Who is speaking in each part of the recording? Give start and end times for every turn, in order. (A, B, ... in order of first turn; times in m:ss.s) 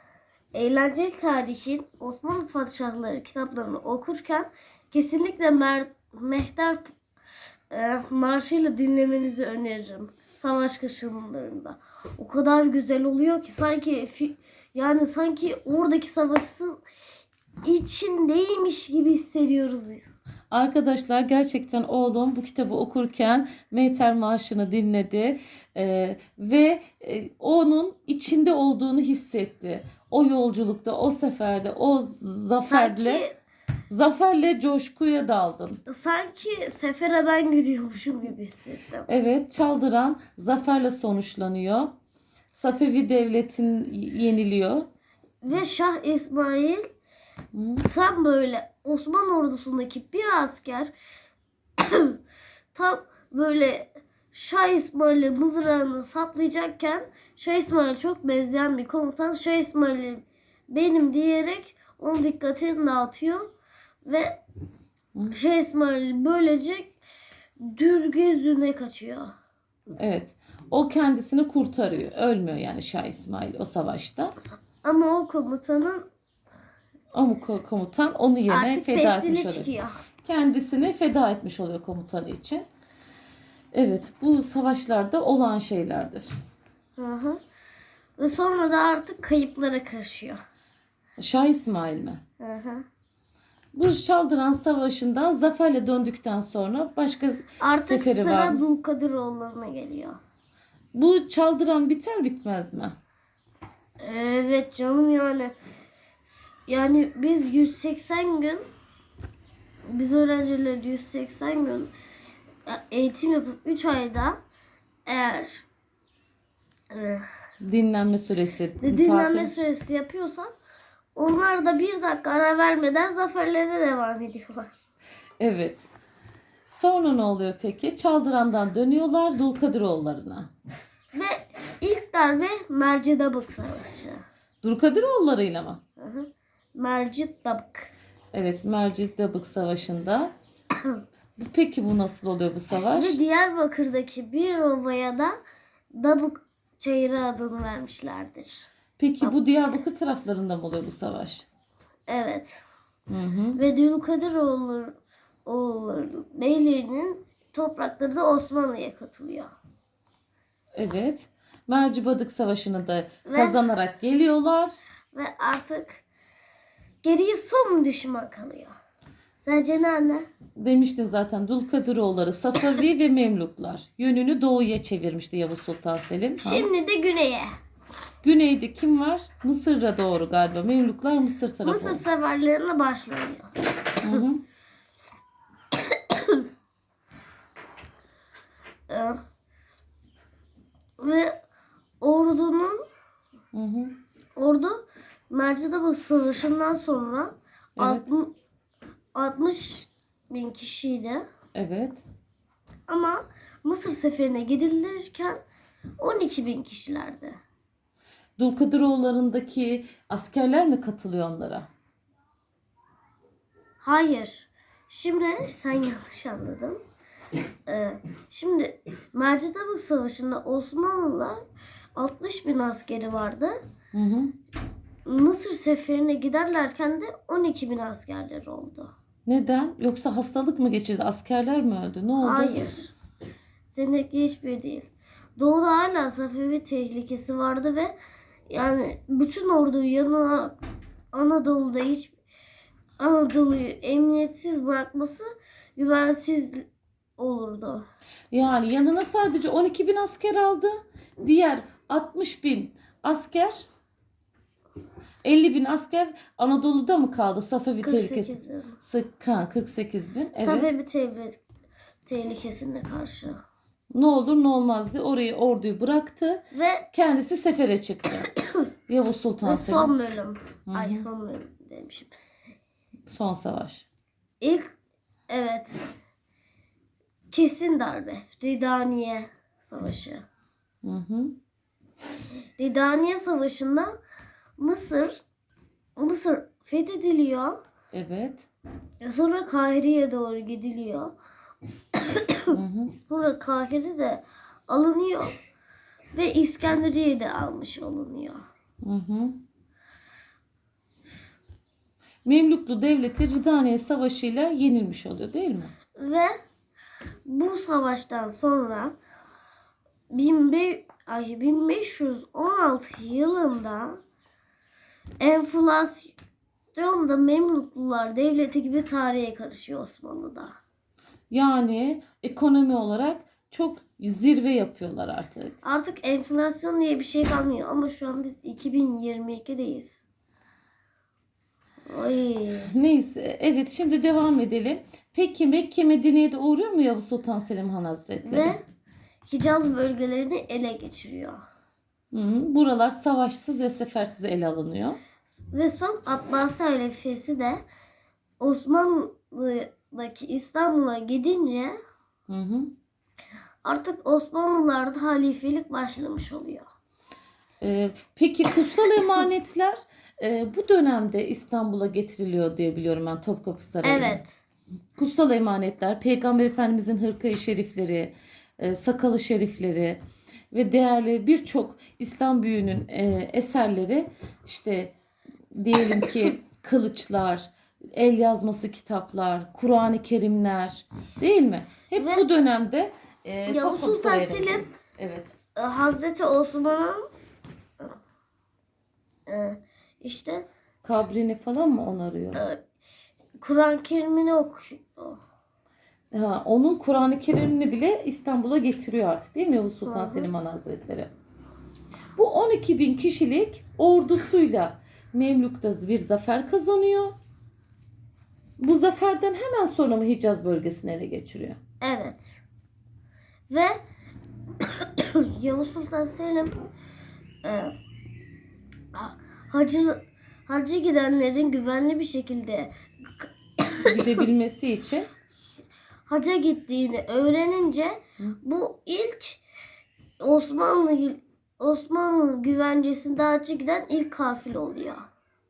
0:00.5-0:06.9 A
0:07.7-0:16.8 A
0:17.6-0:20.0 A
0:20.5-0:33.2 B
0:32.6-0:33.3 A
0:33.9-0:35.8 B
0:35.9-0:39.1 A
0:39.1-0:41.9 B
0:42.5-0:44.9 B
0:45.4-0:46.8 A
0:47.5-0:47.8 B
0:47.8-0:50.9 A
0:51.8-0:52.2 A
0:52.7-1:03.5 A
1:04.0-1:04.4 A
1:05.3-1:06.9 A
1:07.6-1:09.3 A
1:10.0-1:14.3 B
1:14.8-1:16.0 A
1:17.1-1:19.7 B
1:18.5-1:20.0 A
1:20.2-1:22.6 B
1:23.7-1:26.3 B
1:27.0-1:27.4 A
1:28.2-1:30.4 A
1:31.2-1:32.2 B
1:32.4-1:32.8 A
1:33.7-1:38.6 B
1:37.6-1:40.2 A
1:40.9-1:43.0 B
1:44.0-1:45.5 A
1:46.3-1:48.6 A
1:49.9-1:51.9 A
1:52.6-1:54.4 A
1:55.0-1:55.6 A
1:56.9-1:57.2 A
1:57.6-1:59.5 B
1:58.8-2:00.5 A
2:01.1-2:04.7 A
2:05.4-2:05.9 B
2:06.7-2:10.5 B
2:11.1-2:14.2 A
2:14.6-2:15.8 B
2:16.0-2:17.9 A
2:18.3-2:20.3 B
2:21.4-2:23.2 B
2:22.9-2:25.4 A
2:25.9-2:28.7 A
2:29.0-2:31.4 B
2:32.1-2:32.6 A
2:33.1-2:33.6 B
2:33.6-2:34.9 A
2:35.4-2:39.5 A
2:40.7-2:44.8 B
2:43.2-2:43.6 A
2:45.1-2:46.0 A
2:47.0-2:48.7 A
2:49.4-2:50.3 A
2:50.6-2:56.7 B
2:56.4-2:57.5 A
2:58.2-3:02.0 B
3:01.6-3:03.5 A
3:04.0-3:04.4 B
3:05.9-3:06.5 A
3:08.9-3:09.2 A
3:11.0-3:11.4 A
3:12.0-3:12.8 A
3:13.5-3:14.0 B
3:14.4-3:18.3 A
3:17.8-3:18.1 B
3:19.1-3:21.2 A
3:21.5-3:22.0 B
3:22.9-3:25.4 A
3:26.0-3:27.4 A
3:28.4-3:31.7 B
3:33.8-3:36.8 A
3:37.7-3:41.4 A
3:42.0-3:43.6 A
3:43.9-3:44.3 B
3:45.0-3:48.9 A
3:49.2-3:52.7 B
3:52.2-3:52.9 A
3:53.7-3:57.9 A
3:58.5-4:00.5 A
4:01.1-4:02.1 A
4:03.0-4:05.2 A
4:05.8-4:06.7 A
4:07.2-4:07.8 A
4:08.3-4:13.7 B
4:15.2-4:20.7 B
4:17.8-4:18.8 A
4:20.4-4:21.4 A
4:22.0-4:23.4 A
4:23.9-4:28.3 B
4:26.5-4:26.9 A
4:28.9-4:29.9 B
4:29.4-4:32.1 A
4:30.7-4:31.1 B
4:33.0-4:33.8 B
4:34.4-4:34.7 A
4:35.3-4:35.8 A
4:37.3-4:40.2 A
4:40.8-4:41.4 B
4:42.6-4:43.9 A
4:44.6-4:45.2 A
4:46.0-4:47.6 A
4:47.9-4:48.5 B
4:49.0-4:51.1 A
4:52.0-4:52.6 A
4:52.5-4:53.0 B
4:53.1-4:55.3 A
4:56.1-4:58.4 A
4:58.8-4:59.4 B
5:02.2-5:05.7 B
5:06.0-5:06.3 A
5:07.2-5:08.9 A
5:10.1-5:14.0 A
5:15.2-5:16.1 A
5:16.7-5:20.6 A
5:21.3-5:25.6 B
5:25.6-5:30.0 A
5:31.9-5:32.7 A
5:32.7-5:38.6 B
5:38.2-5:38.6 A
5:39.3-5:41.4 A
5:42.1-5:45.0 B
5:45.5-5:47.6 A
5:48.4-5:51.8 A
5:52.3-5:52.7 B
5:53.6-5:56.6 A
5:57.6-6:04.2 B
6:03.8-6:04.4 A
6:05.0-6:14.9 B
6:15.5-6:25.3 B
6:22.0-6:22.2 A
6:23.5-6:24.6 A
6:25.5-6:27.0 A
6:29.3-6:30.4 A
6:30.8-6:32.4 B
6:32.3-6:32.6 A
6:33.4-6:35.2 A
6:36.1-6:41.1 B
6:39.8-6:40.3 A
6:42.2-6:47.1 B
6:48.6-6:51.6 B
6:51.8-6:52.4 A
6:53.5-6:53.8 A
6:54.6-6:56.6 A
6:57.4-6:57.7 A
6:58.9-7:04.2 A
7:03.8-7:05.1 B
7:06.1-7:09.4 A
7:10.2-7:15.0 A